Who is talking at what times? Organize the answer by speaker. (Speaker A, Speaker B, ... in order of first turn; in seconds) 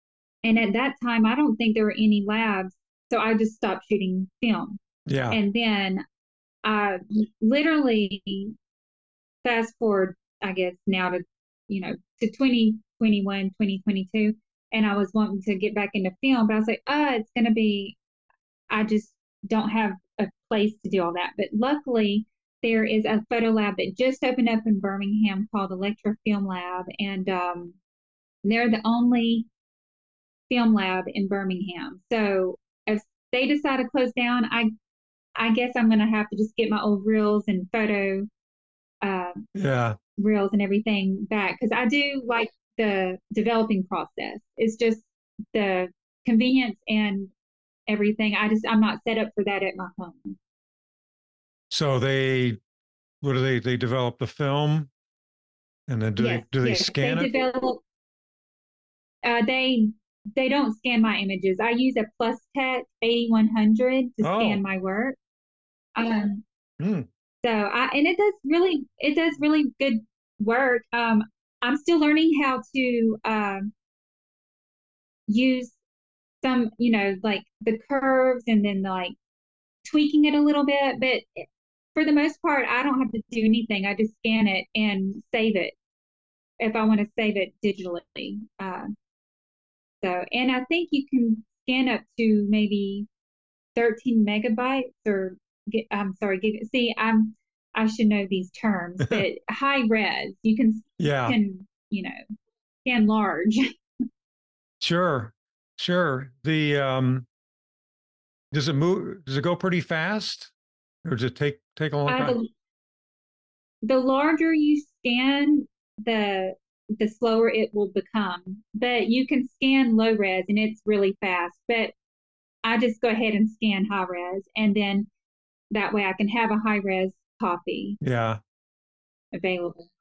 Speaker A: 0.4-6.0, 6.6-8.6, 9.4-18.0, 18.7-27.8, 28.4-29.5, 30.5-34.7, 35.4-38.3, 39.0-39.5, 40.2-47.3, 47.9-50.4, 56.2-57.8, 59.2-65.2, 66.0-66.4, 67.4-73.7, 75.3-75.8, 76.4-79.2, 79.8-85.8, 86.6-88.9, 90.0-93.1, 93.8-102.2, 102.8-103.7, 112.1-112.5, 113.8-121.9, 122.6-125.1, 125.7-128.0, 129.3-129.9
Speaker B: 5.1-5.4, 39.5-40.0, 51.7-52.6, 53.2-54.9, 55.9-57.3, 64.2-64.6, 66.8-67.1, 101.0-101.4, 104.8-107.3, 108.5-110.5, 111.0-112.3, 128.0-128.4